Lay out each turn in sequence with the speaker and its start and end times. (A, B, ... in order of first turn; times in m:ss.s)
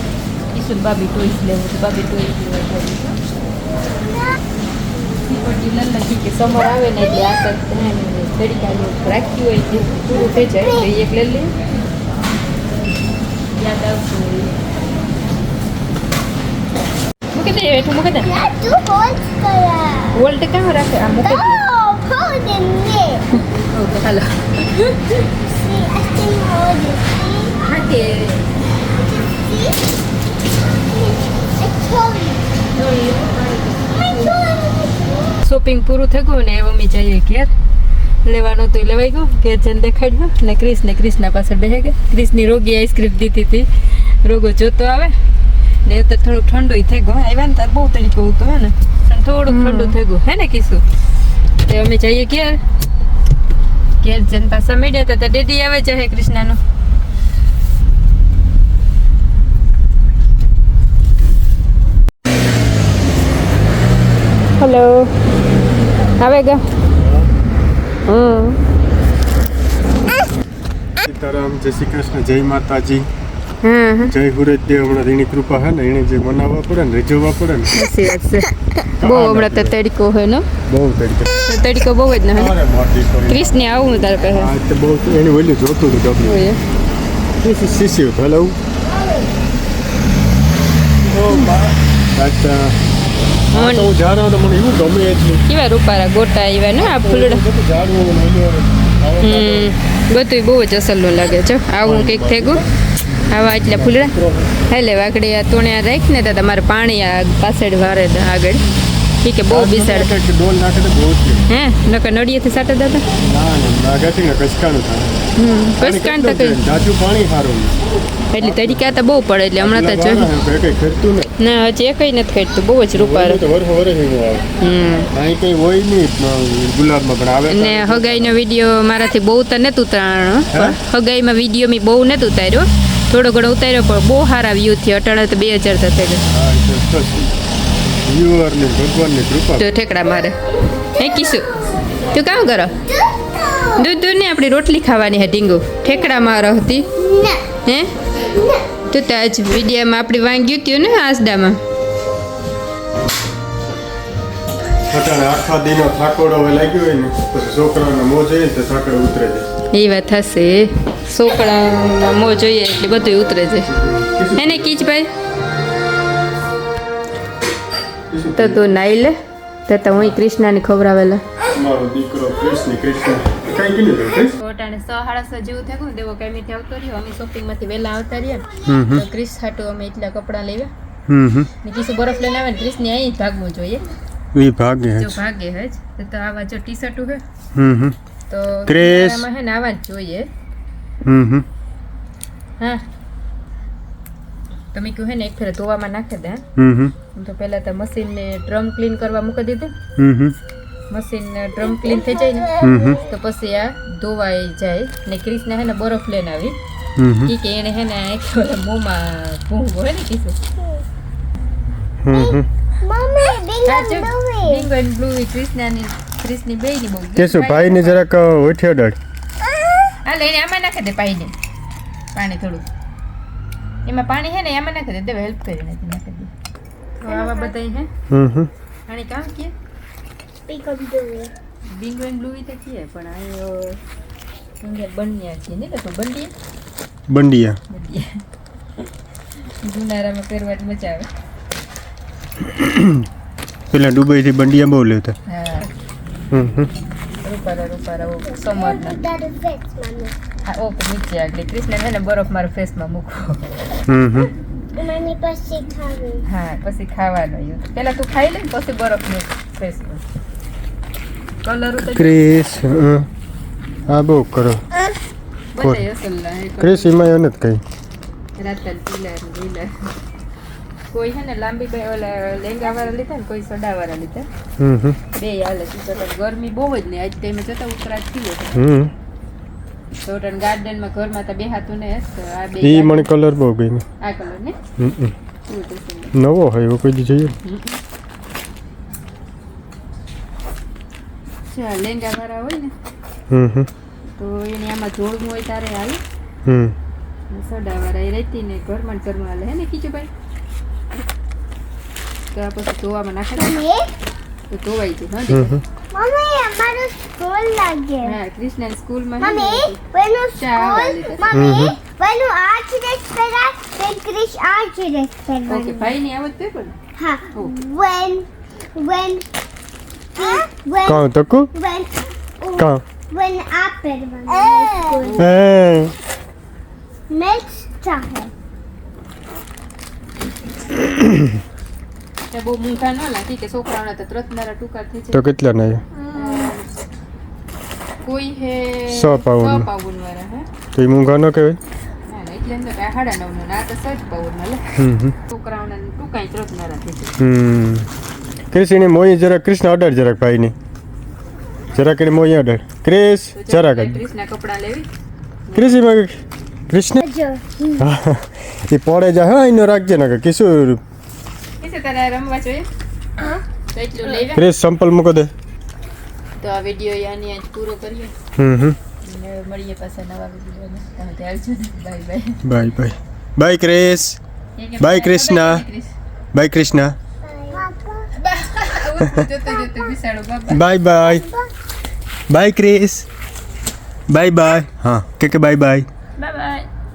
0:00.5-0:03.2 A
0:03.8-0:04.4 B
0:05.2-0:11.5 A
0:10.1-0:10.9 B
0:13.5-0:14.5 A
0:17.3-0:18.3 A
0:18.2-0:20.2 B
0:20.1-0:21.6 A
0:21.2-0:23.3 B
0:23.3-0:25.2 A
0:25.5-0:27.6 B
0:27.6-0:28.5 A
0:29.0-0:29.8 B
0:30.7-0:32.5 B
0:32.7-0:34.4 A
0:35.4-0:37.5 A
0:38.2-0:45.1 A
0:45.8-0:50.8 A
0:51.6-0:52.6 A
0:54.0-0:56.6 A
1:04.6-1:05.1 A
1:06.2-1:06.7 A
1:07.0-1:07.3 C
1:08.1-1:08.6 A
1:11.0-1:13.1 C
1:13.6-1:14.1 A
1:14.0-1:17.7 C
1:17.7-1:20.5 A
1:19.0-1:19.8 C
1:20.7-1:21.3 C
1:21.4-1:22.5 A
1:22.3-1:26.4 C
1:23.3-1:24.5 A
1:26.2-1:26.6 A
1:27.4-1:28.6 C
1:31.0-1:32.8 C
1:31.3-1:31.5 A
1:33.5-1:33.9 A
1:33.5-1:35.4 C
1:35.5-1:37.4 A
1:36.8-1:39.7 C
1:39.2-1:42.6 A
1:41.8-1:42.7 C
1:43.2-1:44.2 A
1:43.7-1:44.5 C
1:44.7-1:48.6 A
1:49.2-1:50.1 A
1:49.5-1:51.4 C
1:51.5-1:53.1 A
1:53.2-1:55.1 C
1:55.4-1:56.6 A
1:55.8-1:57.8 C
1:58.3-2:00.3 A
1:58.4-1:59.0 C
1:59.6-2:01.3 C
2:01.4-2:03.4 A
2:02.9-2:04.5 C
2:04.6-2:05.1 A
2:05.1-2:08.4 C
2:07.5-2:16.2 A
2:10.5-2:10.8 C
2:16.3-2:17.3 C
2:18.0-2:19.6 C
2:19.6-2:20.4 A
2:20.9-2:22.8 A
2:23.0-2:23.8 B
2:23.7-2:26.9 A
2:26.9-2:27.4 B
2:27.6-2:27.9 A
2:28.4-2:28.6 B
2:28.9-2:31.6 A
2:34.9-2:39.5 C
2:39.7-2:43.7 A
2:43.7-2:44.9 C
2:44.4-2:45.1 A
2:48.1-2:48.6 C
2:48.4-2:49.1 A
2:49.7-2:51.2 A
2:51.5-2:54.3 C
2:54.4-3:00.7 A
2:58.7-2:59.0 C
3:01.1-3:01.5 C
3:01.6-3:03.8 A
3:04.3-3:05.1 C
3:05.0-3:07.2 A
3:07.5-3:08.0 C
3:08.3-3:10.3 A
3:08.7-3:09.2 C
3:11.0-3:11.4 C
3:12.6-3:12.8 A
3:14.7-3:16.4 A
3:16.6-3:16.9 C
3:17.1-3:19.7 A
3:20.0-3:20.4 C
3:20.9-3:26.6 A
3:21.8-3:23.0 B
3:22.6-3:23.0 C
3:27.0-3:27.3 C
3:27.2-3:30.4 A
3:32.0-3:32.5 C
3:32.1-3:34.6 B
3:33.6-3:38.0 A
3:37.2-3:39.0 C
3:40.0-3:41.3 A
3:42.1-3:42.6 A
3:43.8-3:46.3 A
3:47.0-3:47.9 A
3:47.0-3:47.5 B
3:48.1-3:48.5 C
3:48.9-3:49.5 A
3:50.5-3:51.3 B
3:51.7-3:53.8 A
3:54.6-3:56.3 A
3:57.1-3:57.6 C
3:57.7-3:58.2 A
3:59.6-4:01.1 A
4:02.4-4:03.0 C
4:03.7-4:05.2 C
4:05.3-4:05.7 A
4:06.3-4:06.7 C
4:07.2-4:09.0 A
4:08.3-4:10.1 B
4:10.4-4:13.4 A
4:13.9-4:14.3 C
4:14.8-4:16.2 B
4:16.2-4:20.0 A
4:21.4-4:22.2 A
4:21.8-4:23.1 C
4:23.9-4:24.6 C
4:25.5-4:27.0 A
4:26.6-4:27.6 C
4:28.4-4:29.7 A
4:30.9-4:34.3 A
4:34.6-4:35.0 C
4:35.1-4:38.7 A
4:38.5-4:38.9 C
4:40.0-4:43.1 A
4:42.6-4:43.8 C
4:44.0-4:44.6 A
4:44.8-4:45.1 C
4:45.5-4:46.1 A
4:46.1-4:47.3 C
4:47.4-4:47.8 A
4:51.5-4:52.7 A
4:53.3-4:53.7 C
4:54.2-4:56.0 A
4:56.4-4:56.7 C
4:57.3-5:00.1 A
5:02.3-5:03.6 A
5:03.4-5:03.9 B
5:04.5-5:05.6 A
5:05.3-5:05.6 C
5:05.9-5:08.1 B
5:08.0-5:09.8 A
5:09.2-5:15.9 B
5:10.4-5:11.6 A
5:11.3-5:11.7 C
5:15.5-5:16.8 A
5:17.0-5:19.2 B
5:17.3-5:17.6 A
5:20.1-5:25.2 B
5:20.8-5:21.5 C
5:22.6-5:22.8 C
5:25.0-5:25.3 A
5:25.2-5:25.9 C
5:27.1-5:28.3 B
5:31.0-5:31.2 C
5:32.3-5:35.3 A
5:35.1-5:35.8 C
5:36.0-5:36.5 B
5:36.1-5:36.7 A
5:38.0-5:40.5 A
5:38.9-5:39.7 C
5:40.7-5:41.6 C
5:42.1-5:44.6 A
5:44.8-5:45.1 C
5:45.3-5:47.1 A
5:47.2-5:47.9 C
5:48.5-5:50.5 C
5:51.7-5:54.0 C
5:53.3-5:54.9 A
5:55.5-5:55.9 A
5:55.5-5:57.0 C
5:57.0-5:57.8 B
5:57.8-6:00.8 C
6:01.6-6:02.7 A
6:03.7-6:04.4 A
6:04.2-6:05.3 C
6:06.4-6:08.1 A
6:08.4-6:08.8 C
6:09.0-6:12.4 A
6:12.4-6:14.2 C
6:14.6-6:15.9 A
6:14.8-6:15.6 C
6:16.3-6:16.9 C
6:17.2-6:18.1 B
6:18.2-6:20.6 A
6:20.5-6:21.2 C
6:21.0-6:21.5 B
6:22.3-6:23.0 C
6:24.1-6:25.9 C
6:26.2-6:26.7 A